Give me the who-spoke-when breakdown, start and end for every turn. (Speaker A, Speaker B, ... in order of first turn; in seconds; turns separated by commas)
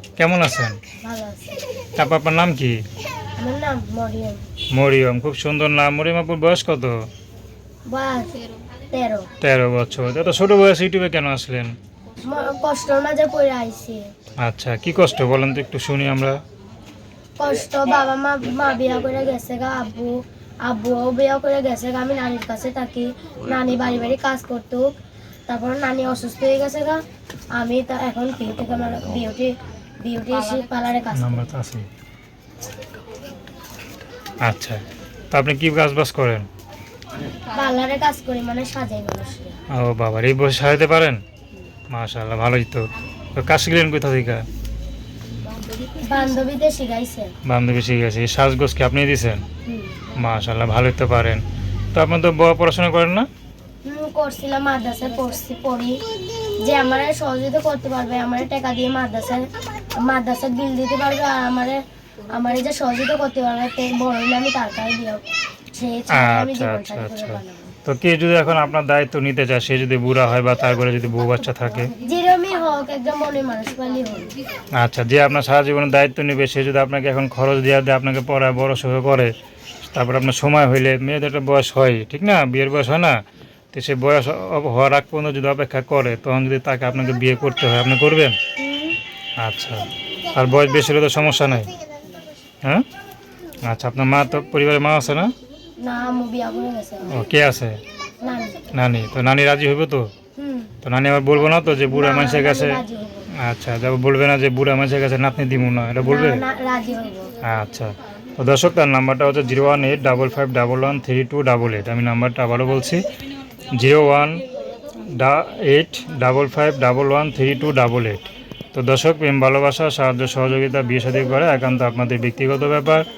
Speaker A: 0.2-0.8, Speaker B: 1.0-1.7, Speaker A: 1.9-2.8, Speaker B: 3.4-4.4, Speaker A: 4.7-6.9, Speaker B: 7.9-8.4, Speaker B: 8.9-9.3, Speaker A: 9.4-11.7, Speaker B: 12.2-14.1, Speaker A: 14.4-16.4, Speaker B: 17.4-24.9, Speaker B: 25.5-27.0, Speaker B: 27.6-31.5, Speaker A: 31.1-31.9, Speaker A: 34.4-34.8, Speaker A: 35.3-36.5, Speaker B: 37.5-39.5, Speaker A: 39.7-41.2, Speaker A: 41.9-44.4, Speaker B: 45.9-47.3, Speaker A: 47.4-49.4, Speaker B: 49.6-50.0, Speaker A: 50.1-51.4, Speaker A: 51.9-53.3, Speaker B: 53.8-56.0, Speaker B: 56.6-59.5, Speaker B: 60.0-61.8, Speaker B: 62.3-67.7, Speaker A: 66.1-71.9, Speaker B: 72.0-74.3, Speaker A: 74.8-79.3, Speaker A: 79.8-83.2, Speaker A: 83.7-88.4, Speaker B: 88.6-89.0, Speaker A: 89.4-91.7, Speaker A: 93.6-95.3, Speaker B: 95.8-97.2, Speaker A: 97.1-97.8, Speaker B: 98.2-98.7, Speaker A: 98.7-100.1, Speaker B: 100.4-100.7, Speaker A: 100.8-102.8, Speaker B: 101.9-103.3, Speaker A: 103.3-106.4, Speaker B: 106.0-107.3, Speaker A: 107.4-113.0, Speaker A: 113.7-114.4, Speaker A: 115.0-118.2, Speaker A: 118.7-123.0